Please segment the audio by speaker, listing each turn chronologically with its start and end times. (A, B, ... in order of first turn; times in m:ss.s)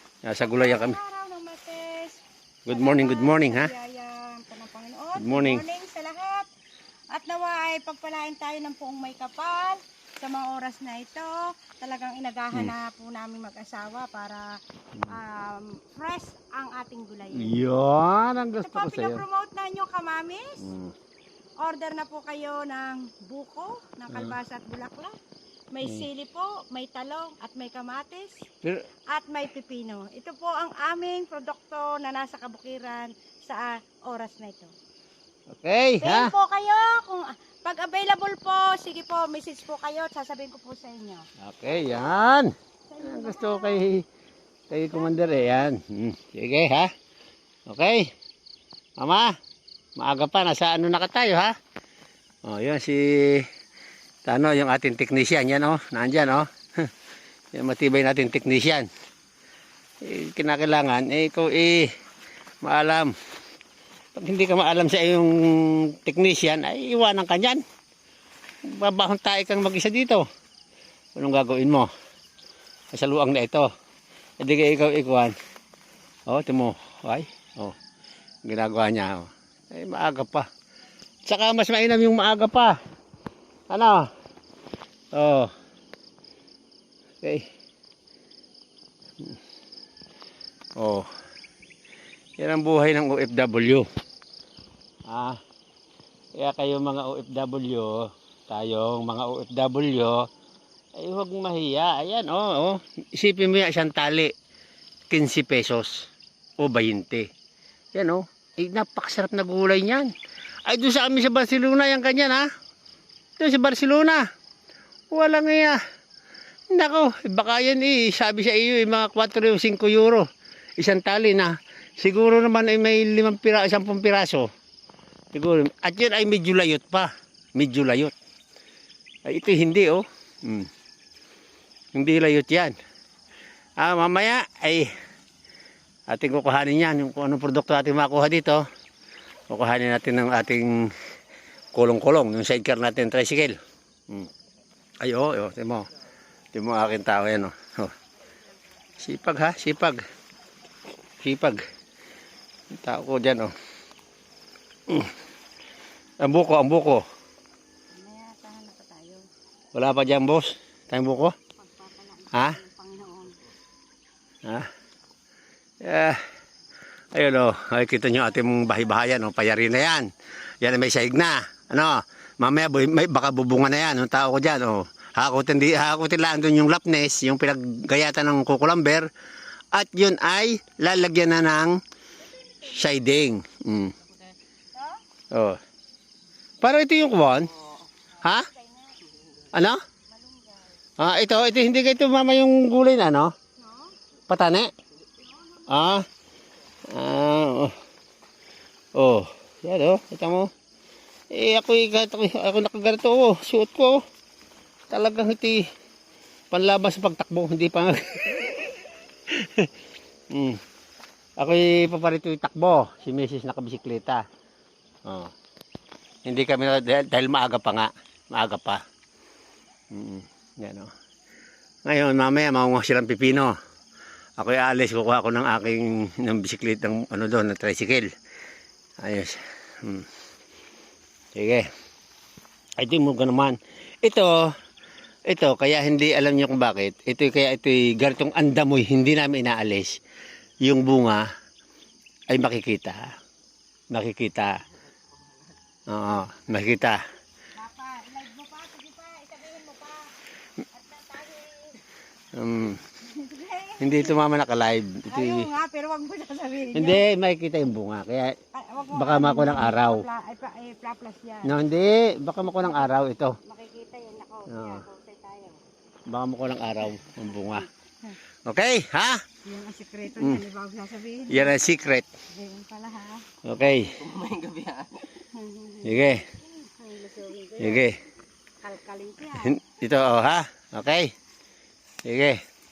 0:00.2-0:01.0 A
0:00.4-0:06.5 B
0:02.7-0:03.7 A
0:05.2-0:05.6 A
0:07.1-0:17.6 B
0:17.3-0:19.2 A
0:18.6-0:20.6 B
0:20.6-0:20.9 A
0:21.6-0:25.1 B
0:24.1-0:24.4 A
0:25.7-0:28.4 B
0:29.1-0:34.7 B
0:35.6-0:36.3 A
0:36.0-0:41.3 B
0:41.4-0:42.5 A
0:42.9-0:43.8 B
0:43.0-0:44.0 A
0:44.7-0:46.9 A
0:44.7-0:45.6 B
0:47.7-0:48.1 A
0:49.0-0:49.3 A
0:50.0-0:51.5 A
0:52.4-0:53.5 A
0:54.2-0:56.9 A
0:57.5-0:58.9 A
1:00.0-1:01.9 A
1:02.6-1:03.1 A
1:04.2-1:07.6 A
1:08.7-1:10.2 A
1:11.2-1:11.9 A
1:12.9-1:13.7 A
1:14.4-1:15.4 A
1:16.3-1:17.8 A
1:18.4-1:20.5 A
1:21.3-1:22.8 A
1:23.7-1:24.1 A
1:25.1-1:25.5 A
1:30.8-1:31.1 A
1:32.4-1:33.8 A
1:35.1-1:35.4 A
1:36.4-1:40.3 A
1:41.0-1:44.3 A
1:45.1-1:46.1 A
1:46.6-1:47.3 A
1:47.9-1:50.1 A
1:50.7-1:52.4 A
1:53.4-1:54.2 A
1:55.1-1:55.8 A
1:56.7-2:00.3 A
2:00.8-2:04.5 A
2:05.3-2:08.1 A
2:09.3-2:10.7 A
2:11.9-2:12.8 A
2:13.8-2:14.9 A
2:16.1-2:18.6 A
2:19.5-2:20.7 A
2:21.7-2:23.6 A
2:25.0-2:25.9 A
2:26.5-2:27.9 A
2:29.0-2:30.0 A
2:31.2-2:31.6 A
2:32.7-2:33.5 A
2:34.9-2:35.1 A
2:36.2-2:37.0 A
2:37.9-2:39.2 B
2:39.7-2:41.4 A
2:41.6-2:43.4 B
2:42.3-2:42.6 A
2:45.8-2:46.2 A
2:47.1-2:50.1 A
2:50.6-2:59.1 A
2:59.7-3:01.8 A
3:02.3-3:02.9 B
3:02.6-3:04.0 A
3:04.8-3:05.0 B
3:05.3-3:05.6 A
3:06.6-3:07.5 A
3:08.2-3:08.5 A
3:08.2-3:09.0 B
3:09.5-3:09.8 A
3:10.1-3:10.8 B
3:11.0-3:13.3 A
3:13.6-3:13.9 B
3:14.3-3:14.7 A
3:15.7-3:16.1 A
3:16.9-3:17.8 A
3:19.0-3:20.5 A
3:21.3-3:24.0 A
3:24.9-3:25.6 A
3:26.5-3:29.7 A
3:30.3-3:30.6 A
3:31.4-3:34.2 A
3:35.1-3:35.3 A
3:36.3-3:38.8 A
3:39.9-3:40.9 A
3:41.9-3:43.5 A
3:44.4-3:48.1 A
3:49.0-3:50.1 A
3:51.4-3:51.7 A
3:52.8-3:54.5 A
3:55.3-4:00.0 A
4:00.6-4:01.2 A
4:02.3-4:03.0 A
4:03.9-4:04.6 A
4:05.9-4:07.0 A
4:07.6-4:10.1 B
4:10.7-4:11.8 B
4:12.3-4:12.8 A
4:13.0-4:14.2 B
4:13.8-4:15.5 A
4:15.1-4:17.0 B
4:16.7-4:18.4 A
4:18.5-4:21.6 B
4:18.9-4:20.1 A
4:21.4-4:23.4 A
4:22.6-4:22.9 B
4:23.4-4:25.6 B
4:24.5-4:24.8 A
4:26.1-4:27.7 A
4:27.5-4:28.2 B
4:28.5-4:29.2 A
4:29.4-4:31.6 B
4:30.2-4:30.4 A
4:31.3-4:32.1 A
4:32.3-4:33.3 B
4:33.4-4:34.3 A
4:35.2-4:36.0 B
4:35.8-4:36.3 A
4:36.6-4:37.9 B
4:37.6-4:38.0 A
4:38.6-4:39.6 B
4:39.4-4:41.1 A
4:42.0-4:42.4 A